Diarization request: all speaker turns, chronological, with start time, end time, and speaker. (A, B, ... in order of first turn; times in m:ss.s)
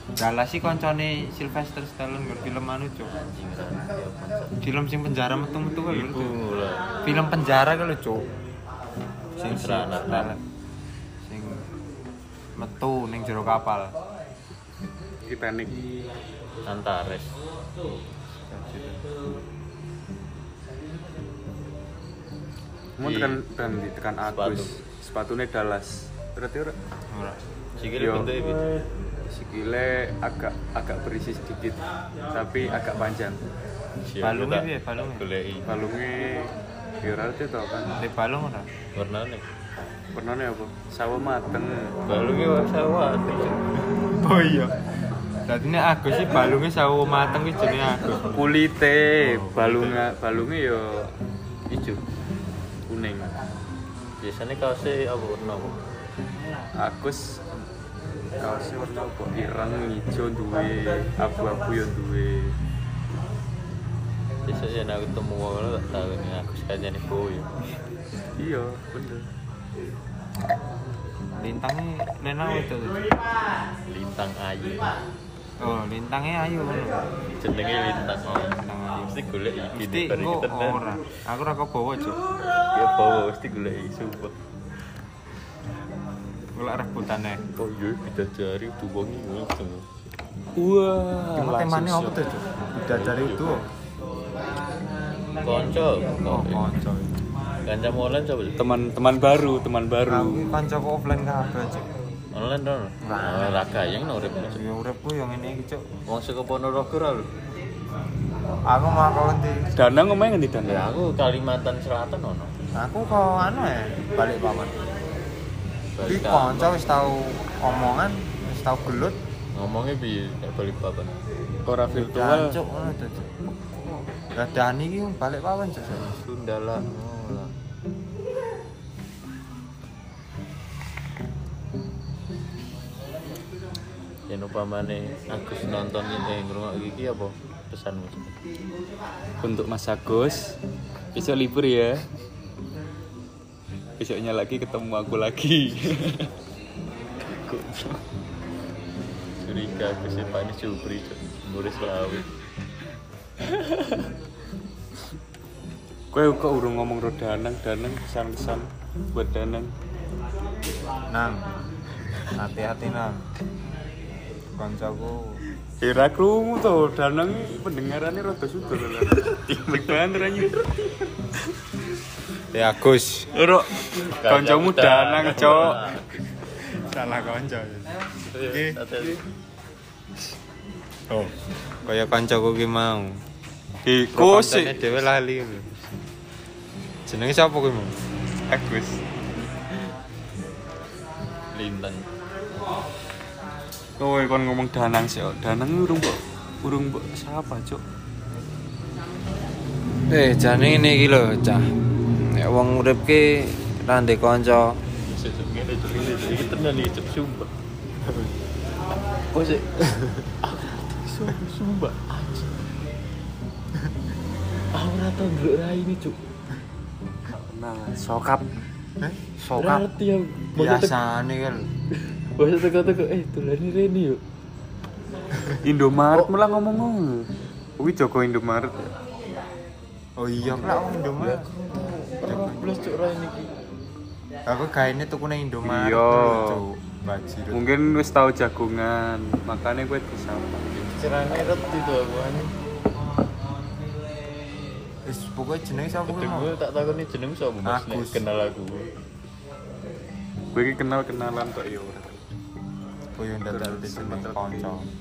0:00.2-0:03.1 A
0:03.1-0:04.6 B
0:04.6-0:06.4 A
0:05.9-0:06.9 B
0:07.0-0:08.2 A
0:09.4-0:10.4 A
0:09.5-0:10.3 B
0:11.2-0:11.6 A
0:12.6-0:14.0 A
0:15.3-0:15.8 C
0:16.6-0:17.3 B
0:18.5-0:19.0 A
0:23.0-0:26.7 C
0:23.0-0:23.4 B
0:24.2-0:24.7 B
0:27.1-0:27.4 A
0:27.8-0:28.7 B
0:27.9-0:28.4 C
0:29.3-0:33.4 C
0:34.0-0:35.7 B
0:34.2-0:35.3 A
0:35.6-0:37.9 C
0:38.0-0:38.7 A
0:38.9-0:39.4 B
0:40.1-0:42.0 C
0:42.1-0:43.6 B
0:43.9-0:44.7 A
0:45.4-0:48.4 A
0:48.2-0:51.1 C
0:49.2-0:50.0 B
0:51.7-0:52.0 B
0:52.9-0:53.3 C
0:54.2-0:55.7 B
0:56.8-0:57.3 C
0:58.4-1:02.6 C
1:04.4-1:07.5 B
1:08.4-1:09.3 C
1:11.4-1:13.0 A
1:13.9-1:14.9 B
1:15.6-1:17.0 A
1:17.4-1:20.8 B
1:18.2-1:19.2 A
1:19.7-1:22.2 A
1:22.7-1:24.3 B
1:26.5-1:27.4 A
1:27.6-1:29.9 B
1:30.6-1:32.3 C
1:31.3-1:33.7 A
1:32.9-1:33.6 B
1:35.4-1:36.7 B
1:36.2-1:37.2 A
1:37.6-1:38.6 B
1:38.6-1:40.4 C
1:40.0-1:41.9 A
1:42.3-1:44.6 B
1:43.0-1:43.6 A
1:44.5-1:45.8 A
1:46.1-1:47.2 B
1:48.7-1:49.6 A
1:49.7-1:51.0 C
1:50.6-1:52.5 B
1:52.7-1:54.7 A
1:56.0-1:56.9 B
1:56.0-1:59.2 A
1:59.5-2:01.1 B
2:01.6-2:02.6 C
2:01.9-2:03.3 A
2:04.3-2:06.1 A
2:05.9-2:07.5 B
2:14.3-2:18.3 B
2:19.4-2:20.6 C
2:21.1-2:22.0 C
2:24.0-2:26.3 C
2:27.5-2:27.8 B
2:29.4-2:32.3 B
2:36.1-2:39.7 C
2:41.1-2:41.4 A
2:42.3-2:43.3 A
2:44.6-2:45.4 A
2:45.8-2:50.7 C
2:49.1-2:50.0 B
2:52.5-2:53.4 A
2:53.4-2:56.2 B
2:53.4-2:56.0 C
2:56.4-2:58.8 A
2:58.2-2:59.2 B
3:01.8-3:03.2 A
3:03.8-3:05.1 C
3:04.1-3:05.8 A
3:07.1-3:08.0 A
3:08.5-3:09.0 C
3:11.5-3:12.1 B
3:14.0-3:17.8 C
3:20.1-3:24.8 A
3:25.0-3:27.5 B
3:28.1-3:28.3 A
3:29.3-3:32.7 B
3:34.7-3:36.2 B
3:37.3-3:38.5 C
3:39.0-3:39.9 A
3:39.6-3:41.0 B
3:40.5-3:41.6 A
3:42.0-3:44.2 B
3:45.6-3:48.9 C
3:50.2-3:51.5 A
3:50.4-3:53.5 B
3:52.2-3:52.9 A
3:54.5-3:57.6 A
3:55.6-3:56.6 C
3:57.5-4:01.1 C
4:00.7-4:02.5 B
4:05.0-4:06.5 A
4:06.0-4:08.9 B
4:07.6-4:08.2 A
4:10.5-4:12.2 C
4:13.2-4:14.9 A
4:13.5-4:14.8 C